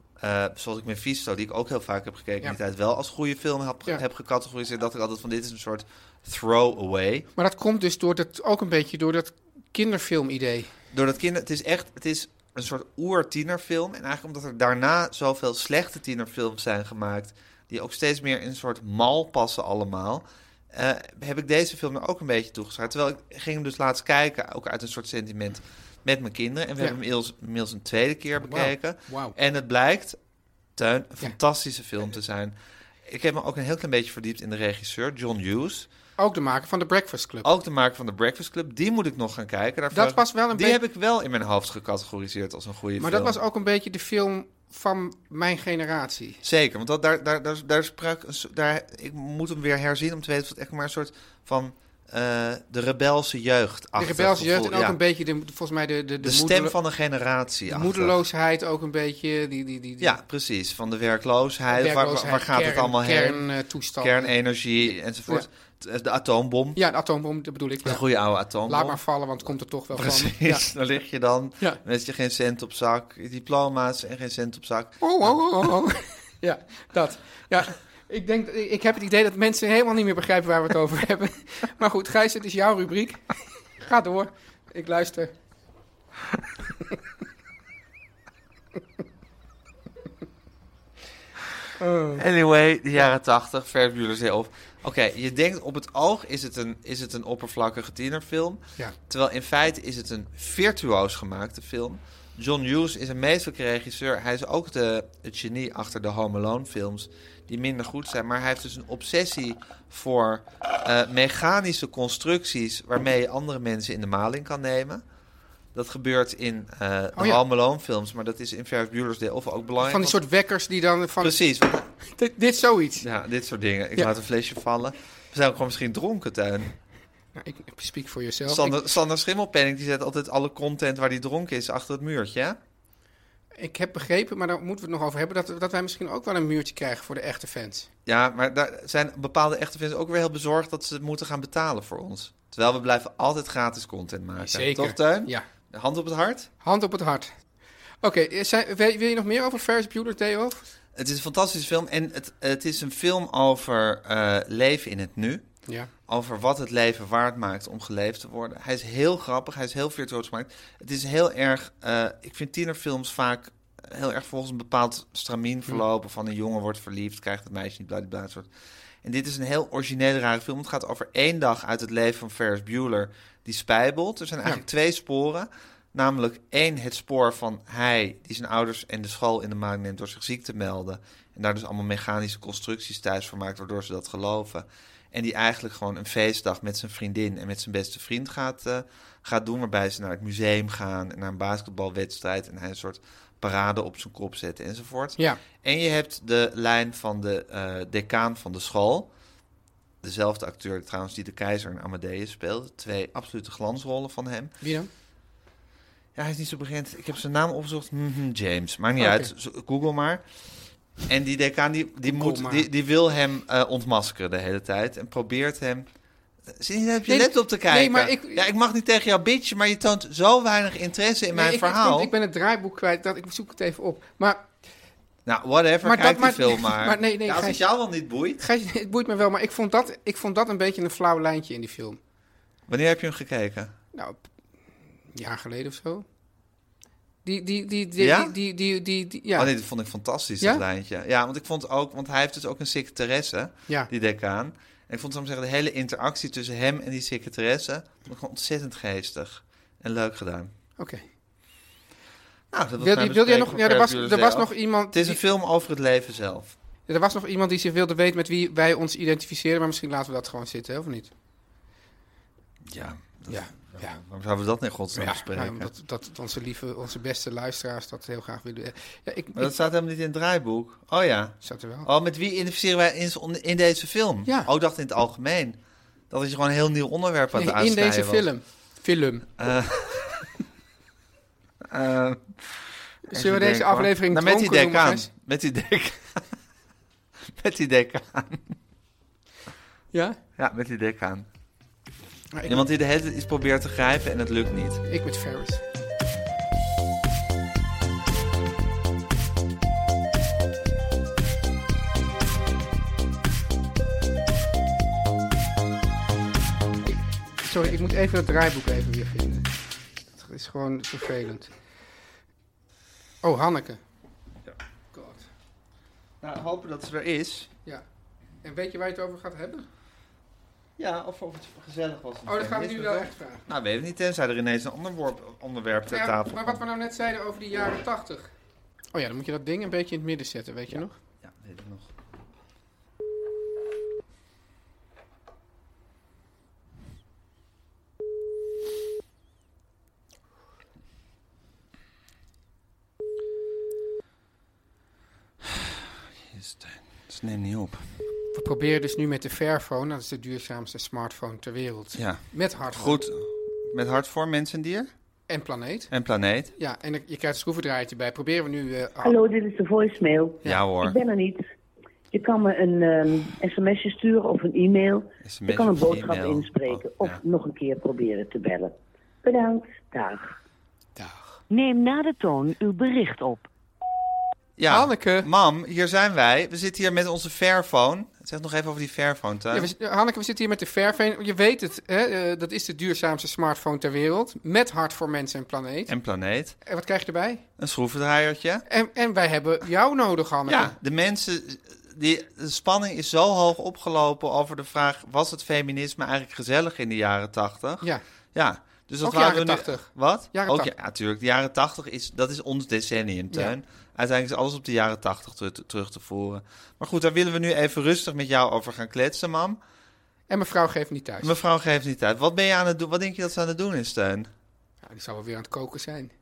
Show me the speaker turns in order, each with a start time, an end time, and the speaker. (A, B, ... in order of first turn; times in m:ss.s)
0:00.2-0:07.3 A
0:07.4-0:10.7 B
0:10.9-0:30.2 A
0:28.4-0:29.4 B
0:30.8-0:32.6 A
0:33.1-0:35.9 A
0:36.2-0:37.5 B
0:37.4-0:43.4 A
0:39.9-0:40.8 B
0:43.0-0:46.4 B
0:46.4-0:55.0 A
0:54.0-0:56.8 B
0:56.2-0:58.2 A
0:57.7-1:00.2 B
1:00.0-1:03.5 A
1:01.7-1:05.5 B
1:04.0-1:06.8 A
1:06.8-1:08.0 B
1:07.8-1:09.0 A
1:08.7-1:10.7 B
1:09.9-1:15.4 A
1:15.0-1:25.3 B
1:31.8-1:32.2 B
1:32.1-1:55.0 A
1:55.7-2:00.2 A
1:57.2-1:57.4 B
1:59.8-2:01.4 B
2:01.2-2:01.9 A
2:02.0-2:03.0 B
2:03.0-2:06.7 A
2:07.4-2:08.8 B
2:08.5-2:12.6 A
2:13.6-2:17.9 B
2:18.1-2:26.5 A
2:24.4-2:25.4 B
2:26.6-2:27.3 B
2:28.0-2:30.6 B
2:31.0-2:35.5 A
2:36.1-2:48.5 A
2:49.0-3:19.1 A
3:20.0-3:24.6 A
3:24.6-3:24.9 B
3:26.2-3:30.2 A
3:29.0-3:29.3 B
3:31.0-3:35.9 A
3:32.1-3:32.7 B
3:36.5-3:42.1 A
3:37.1-3:38.4 B
3:41.3-3:44.5 B
3:45.3-3:48.4 A
3:45.8-3:47.6 B
3:48.4-3:52.0 B
3:52.7-3:53.7 A
3:53.9-3:54.2 B
3:55.1-3:56.0 B
3:57.2-3:59.5 B
3:58.0-3:58.4 A
3:59.4-4:10.5 A
4:10.8-4:11.0 B
4:12.5-4:16.5 A
4:12.8-4:15.2 B
4:16.9-4:21.1 B
4:22.7-4:25.7 A
4:23.3-4:24.0 B
4:25.0-4:29.5 B
4:29.4-4:35.6 A
4:31.4-4:31.9 B
4:36.1-4:38.3 A
4:37.3-4:39.3 B
4:39.4-4:40.3 A
4:41.6-4:46.2 A
4:43.1-4:45.1 B
4:47.3-4:48.6 A
4:49.9-4:50.2 B
4:50.4-4:51.3 A
4:52.3-4:52.7 B
4:52.5-4:54.8 A
4:54.9-4:55.6 B
5:06.9-5:09.5 B
5:10.2-5:11.5 B
5:13.2-5:13.8 B
5:14.9-5:15.3 B
5:16.2-5:17.5 A
5:18.4-5:19.7 B
5:20.8-5:26.6 A
5:22.3-5:23.4 B
5:25.9-5:28.3 B
5:28.9-5:31.0 B
5:30.7-5:31.9 A
5:45.4-5:47.9 A
5:48.3-5:53.0 B
5:52.0-5:54.9 A
5:55.3-5:55.9 B
5:55.9-5:56.5 A
5:56.6-5:59.2 B
5:59.0-6:01.4 C
6:00.4-6:01.0 A
6:02.1-6:08.7 C
6:05.2-6:07.2 A
6:09.2-6:10.4 C
6:11.0-6:11.4 B
6:11.5-6:13.5 C
6:14.6-6:19.7 A
6:14.7-6:15.3 B
6:19.5-6:25.9 B
6:25.9-6:26.6 A
6:26.6-6:27.4 B
6:27.6-6:28.6 A
6:28.7-6:30.8 B
6:30.5-6:49.6 A
6:39.0-6:40.7 B
6:50.3-6:51.4 B
6:51.2-6:54.3 A
6:54.8-6:56.1 B